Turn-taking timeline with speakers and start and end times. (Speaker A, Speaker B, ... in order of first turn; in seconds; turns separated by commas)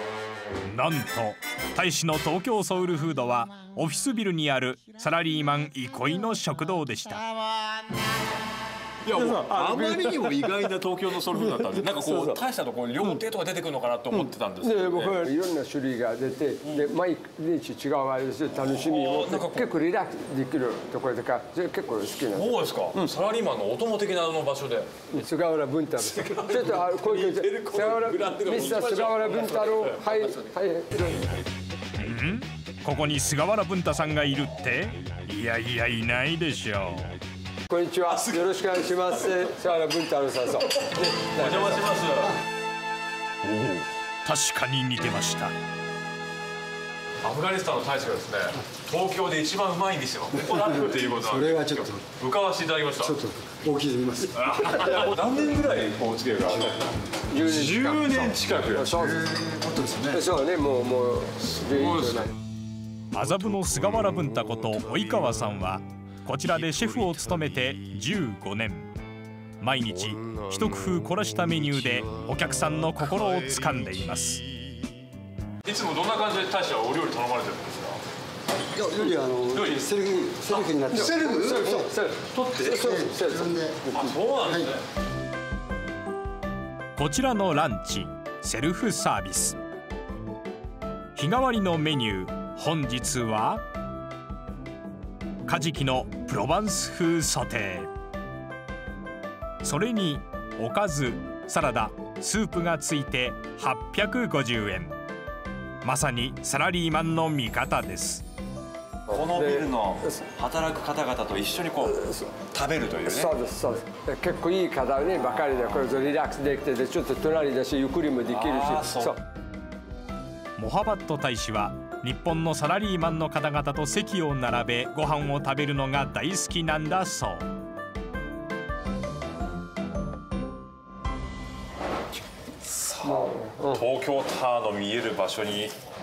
Speaker A: 0.6-7.2, Speaker B: 9.1-15.3, Speaker C: 9.1-10.5, Speaker C: 11.5-12.4, Speaker C: 14.2-23.1, Speaker B: 18.6-19.8, Speaker B: 22.3-24.9, Speaker C: 25.1-31.3, Speaker B: 26.0-30.4, Speaker A: 32.0-37.2, Speaker C: 37.7-41.9, Speaker B: 38.1-38.5, Speaker B: 41.3-42.4, Speaker A: 43.4-45.5, Speaker B: 47.2-53.3, Speaker D: 51.3-51.6, Speaker D: 53.1-54.3, Speaker B: 54.3-60.2, Speaker C: 57.3-59.5, Speaker C: 60.0-62.4, Speaker B: 61.5-62.3, Speaker A: 63.1-68.9, Speaker A: 69.6-74.5, Speaker B: 75.6-78.0, Speaker D: 78.8-81.5, Speaker B: 79.5-81.7, Speaker C: 80.3-84.1, Speaker B: 82.3-83.2, Speaker B: 83.9-84.8, Speaker A: 87.0-89.6, Speaker A: 91.2-93.6, Speaker A: 95.5-97.9, Speaker A: 99.6-105.0, Speaker A: 105.8-108.2, Speaker B: 109.1-113.3, Speaker C: 109.1-110.2, Speaker C: 111.9-112.3, Speaker C: 113.0-119.2, Speaker B: 118.3-119.2, Speaker A: 120.6-127.5, Speaker B: 132.7-135.8, Speaker C: 133.0-133.8